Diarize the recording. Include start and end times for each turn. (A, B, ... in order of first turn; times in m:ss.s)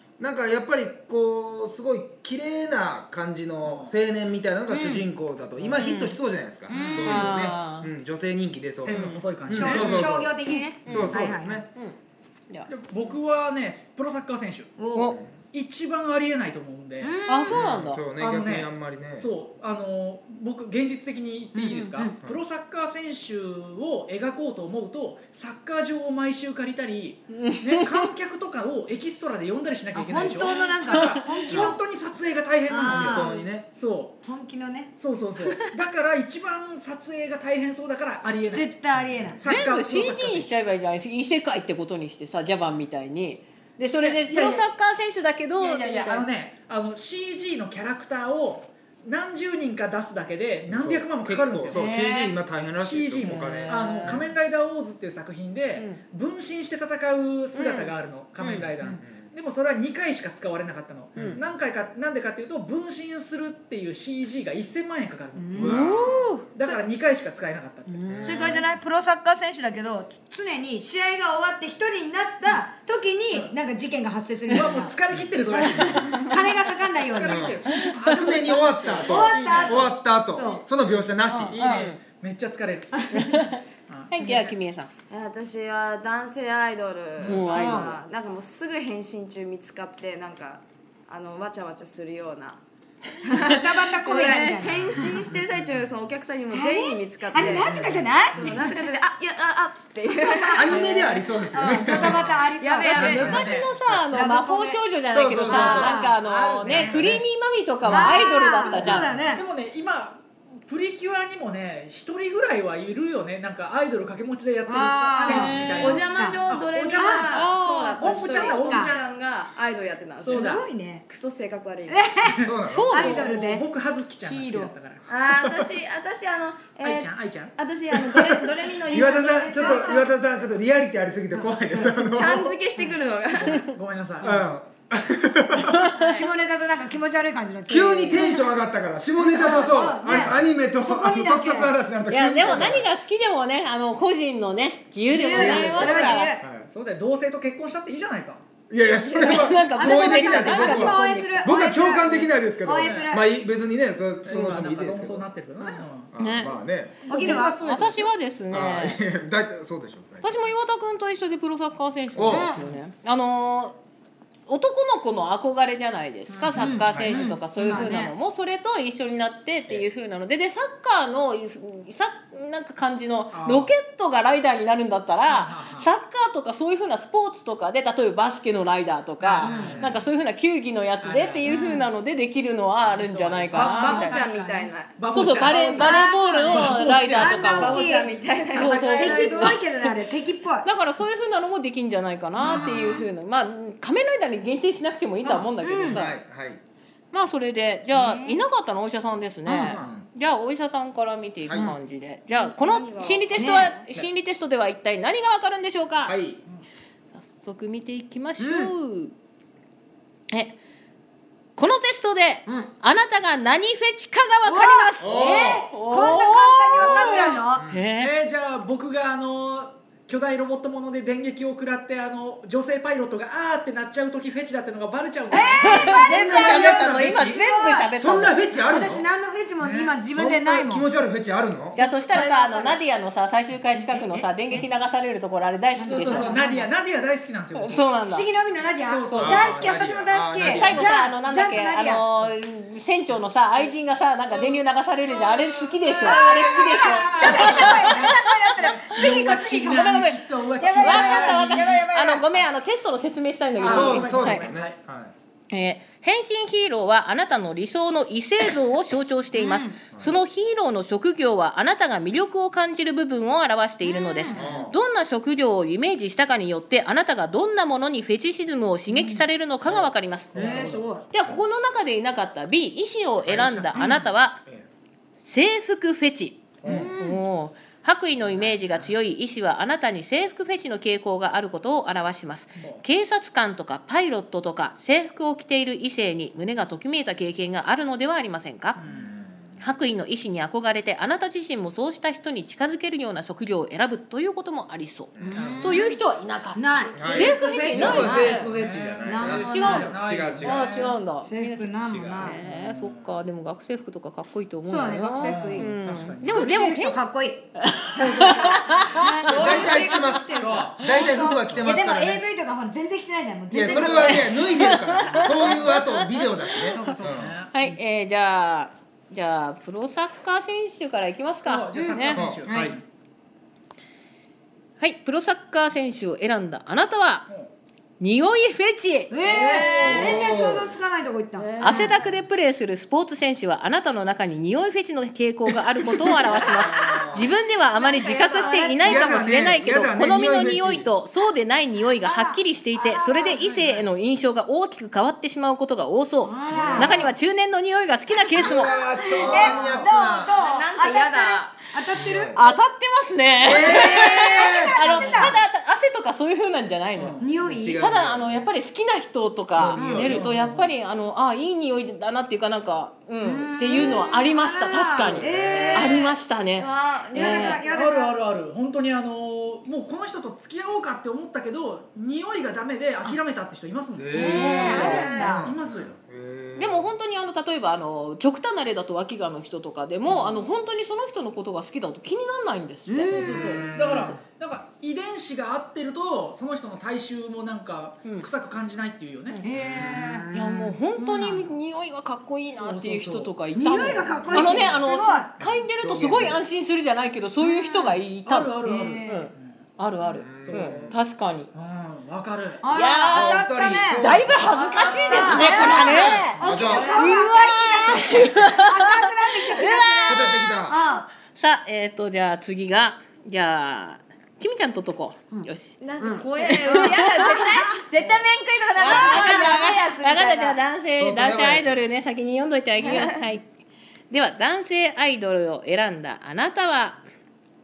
0:00.2-0:10.3 A
0:03.6-0:03.9 B
0:04.7-0:05.1 C
0:05.7-0:06.2 C
0:06.7-0:07.3 D
0:06.7-0:07.9 C
0:08.8-0:10.3 B
0:08.9-0:09.2 C
0:09.5-0:11.6 D
0:10.8-0:12.0 C
0:10.9-0:11.6 A
0:12.7-0:14.7 B
0:14.8-0:15.1 D
0:15.5-0:17.2 B
0:17.0-0:17.6 D
0:17.3-0:18.0 C
0:17.5-0:19.3 A
0:18.2-0:34.2 B
0:21.5-0:22.2 D
0:27.3-0:28.0 C
0:29.9-0:31.8 D
0:30.8-0:31.2 C
0:31.5-0:31.8 A
0:32.7-0:33.4 D
0:32.8-0:33.7 A
0:34.2-0:34.9 D
0:35.0-0:38.7 B
0:38.5-0:39.4 D
0:38.9-0:39.4 A
0:39.4-0:40.5 B
0:39.4-0:46.2 C
0:44.0-0:44.5 B
0:44.3-0:44.6 D
0:45.6-1:05.8 B
0:50.7-0:54.3 A
0:51.7-0:52.3 C
0:53.2-0:54.3 C
0:57.5-0:58.6 C
0:58.4-0:59.3 A
1:01.1-1:01.4 A
1:05.4-1:06.7 D
1:05.5-1:06.4 A
1:05.6-1:06.4 C
1:06.5-1:08.0 B
1:07.9-1:08.5 C
1:08.0-1:08.7 A
1:08.2-1:15.0 D
1:14.5-1:20.0 B
1:15.1-1:16.1 A
1:15.6-1:17.6 D
1:17.2-1:21.9 A
1:17.7-1:18.0 C
1:19.0-1:20.6 D
1:21.3-1:24.6 B
1:21.3-1:22.0 C
1:23.2-1:23.6 C
1:24.1-1:24.9 C
1:25.1-1:32.6 E
1:27.2-1:28.0 C
1:27.4-1:28.0 D
1:33.2-1:37.7 E
1:33.4-1:34.9 D
1:33.5-1:34.6 C
1:34.9-1:35.4 A
1:36.5-1:38.8 D
1:37.6-1:38.6 A
1:38.3-1:41.2 E
1:40.2-1:44.8 D
1:40.5-1:44.1 A
1:41.8-1:43.4 E
1:42.8-1:49.1 C
1:43.1-1:43.7 B
1:45.1-1:46.0 A
1:45.4-1:46.1 D
1:45.6-1:47.0 B
1:46.6-1:47.2 A
1:47.8-1:49.4 D
1:47.9-1:48.4 E
1:48.8-1:49.2 A
1:48.8-1:59.0 B
1:54.6-1:56.4 D
1:55.2-1:56.0 C
1:55.4-2:02.2 E
1:57.0-1:57.4 D
1:57.2-1:58.4 C
1:58.0-1:58.9 D
2:00.2-2:00.6 B
2:00.3-2:01.1 D
2:01.9-2:03.7 D
2:02.3-2:05.0 B
2:02.3-2:03.0 A
2:02.7-2:03.2 C
2:04.2-2:04.7 D
2:05.1-2:10.0 E
2:05.3-2:05.6 A
2:06.8-2:07.5 B
2:07.9-2:12.5 A
2:08.8-2:10.1 D
2:11.3-2:11.6 D
2:11.7-2:13.6 E
2:13.4-2:14.4 B
2:14.2-2:15.9 A
2:15.7-2:16.2 C
2:15.8-2:16.3 E
2:16.0-2:18.5 D
2:17.7-2:22.9 A
2:19.2-2:21.7 D
2:20.0-2:20.3 B
2:22.1-2:26.3 C
2:25.1-2:26.4 D
2:25.3-2:26.7 A
2:26.6-2:28.4 B
2:28.7-2:35.3 A
2:29.0-2:31.3 C
2:29.6-2:33.3 D
2:32.8-2:33.1 B
2:34.2-2:36.1 B
2:35.6-2:35.8 D
2:36.1-2:40.5 A
2:36.2-2:39.0 C
2:37.1-2:38.0 D
2:37.1-2:37.4 B
2:40.2-2:43.8 C
2:42.1-2:42.8 A
2:42.3-2:42.6 D
2:44.5-3:04.2 C
2:46.3-2:48.1 D
2:46.9-2:47.3 A
2:53.3-2:53.7 B
2:55.2-2:55.9 B
2:59.2-2:59.9 B
2:59.4-3:00.1 A
3:01.0-3:01.9 B
3:02.8-3:04.3 B
3:03.5-3:04.7 D
3:03.7-3:05.9 E
3:04.9-3:07.8 B
3:05.1-3:09.6 C
3:05.8-3:10.7 D
3:07.5-3:09.6 E
3:08.6-3:09.1 B
3:10.6-3:16.2 C
3:12.4-3:13.0 B
3:12.5-3:12.9 D
3:15.6-3:16.0 D
3:15.8-3:16.6 A
3:17.1-3:26.1 C
3:17.9-3:18.4 D
3:19.5-3:20.0 A
3:21.5-3:21.8 A
3:22.3-3:23.6 E
3:23.3-3:23.7 D
3:26.0-3:26.4 A
3:27.1-3:29.1 C
3:28.4-3:28.7 D
3:30.3-3:30.6 C
3:31.6-3:38.1 C
3:34.4-3:37.6 D
3:35.0-3:35.7 A
3:36.8-3:37.8 A
3:38.0-3:46.0 B
3:45.3-3:47.9 D
3:45.6-3:48.4 C
3:45.7-3:47.3 A
3:48.0-3:49.0 A
3:48.5-3:50.9 D
3:49.6-3:49.9 B
3:50.1-3:51.8 A
3:51.7-3:52.8 D
3:51.7-3:56.4 C
3:53.8-3:54.3 D
3:55.8-3:56.7 D
3:55.8-3:57.8 B
3:57.6-3:58.2 C
3:58.1-4:02.3 D
3:58.8-3:59.5 B
3:59.1-4:01.0 A
4:00.4-4:08.2 C
4:04.3-4:11.6 B
4:05.8-4:12.5 D
4:07.2-4:08.0 A
4:09.6-4:14.4 C
4:13.6-4:14.7 B
4:13.6-4:15.1 A
4:15.5-4:34.4 C
4:19.3-4:19.8 D
4:19.9-4:20.2 A
4:23.8-4:24.5 D
4:24.3-4:24.8 A
4:28.9-4:29.2 D
4:29.6-4:31.4 A
4:30.3-4:31.1 D
4:33.2-4:34.7 A
4:35.2-4:48.8 C
4:36.6-4:36.9 A
4:36.6-4:37.2 D
4:38.2-4:38.9 A
4:42.6-4:42.8 B
4:48.8-4:49.1 B
4:48.8-4:49.3 A
4:49.6-4:58.5 C
4:55.1-4:55.5 A
4:55.3-4:56.0 D
4:55.3-4:55.8 B
4:56.6-4:58.5 D
4:57.0-5:01.0 A
4:57.7-5:01.0 B
4:59.0-4:59.9 D
4:59.4-5:07.0 C
5:01.2-5:02.4 D
5:01.9-5:02.4 A
5:02.3-5:03.1 B
5:04.7-5:05.7 D
5:05.1-5:06.6 B
5:06.2-5:15.7 D
5:07.6-5:09.8 C
5:08.1-5:10.0 E
5:09.3-5:12.2 A
5:10.3-5:10.8 B
5:13.5-5:17.3 A
5:13.7-5:16.1 C
5:16.7-5:17.0 D
5:16.8-5:17.5 B
5:17.5-5:22.3 C
5:21.4-5:22.8 B
5:22.1-5:22.7 A
5:22.5-5:22.7 D
5:24.8-5:27.2 C
5:28.0-5:29.1 C
5:29.1-5:31.9 D
5:29.2-5:30.2 E
5:29.8-5:30.8 A
5:31.3-5:32.0 E
5:31.6-5:48.8 C
5:31.8-5:32.2 B
5:36.0-5:37.3 A
5:36.4-5:37.2 E
5:37.8-5:39.3 D
5:37.8-5:39.0 E
5:38.8-5:40.9 A
5:42.0-5:43.8 D
5:46.2-5:47.1 D
5:46.5-5:47.1 A
5:48.3-5:50.4 A
5:48.3-5:52.5 D
5:48.6-5:51.7 E
5:51.9-5:52.4 A
5:52.3-5:57.2 C
5:53.4-5:55.3 A
5:53.5-5:55.4 D
5:57.0-5:57.2 B
5:57.2-5:57.8 D
5:57.4-5:58.4 A
5:57.8-6:07.6 C
5:59.6-6:00.3 A
5:59.7-6:00.7 B
6:03.2-6:06.1 D
6:03.6-6:04.2 E
6:05.0-6:05.9 A
6:05.5-6:07.7 E
6:07.1-6:08.1 D
6:07.1-6:15.9 B
6:14.0-6:16.9 A
6:14.1-6:15.5 D
6:14.6-6:15.2 C
6:16.6-6:24.1 C
6:20.1-6:20.4 A
6:22.9-6:23.1 D
6:23.1-6:24.2 A
6:23.1-6:29.4 B
6:29.4-6:31.5 D
6:29.5-6:30.7 A
6:30.3-6:38.5 C
6:32.5-6:33.3 B
6:33.6-6:35.3 D
6:33.8-6:34.6 A
6:35.4-6:36.4 A
6:37.4-6:39.6 B
6:38.6-6:39.3 D
6:39.0-6:41.5 C
6:40.0-6:41.0 A
6:40.4-6:41.0 B
6:41.5-6:42.7 B
6:42.6-6:51.1 D
6:42.7-6:43.4 C
6:43.1-6:44.6 A
6:44.0-6:50.4 C
6:44.5-6:45.8 E
6:45.1-6:46.5 B
6:45.2-6:47.1 A
6:46.6-6:47.3 E
6:47.8-6:48.1 A
6:50.0-6:50.8 A
6:51.3-6:55.8 C
6:55.8-7:00.6 E
6:56.0-6:59.7 D
6:56.6-6:57.2 C
6:58.8-7:03.4 C
7:01.0-7:01.8 A
7:02.8-7:03.2 E
7:04.1-7:07.0 C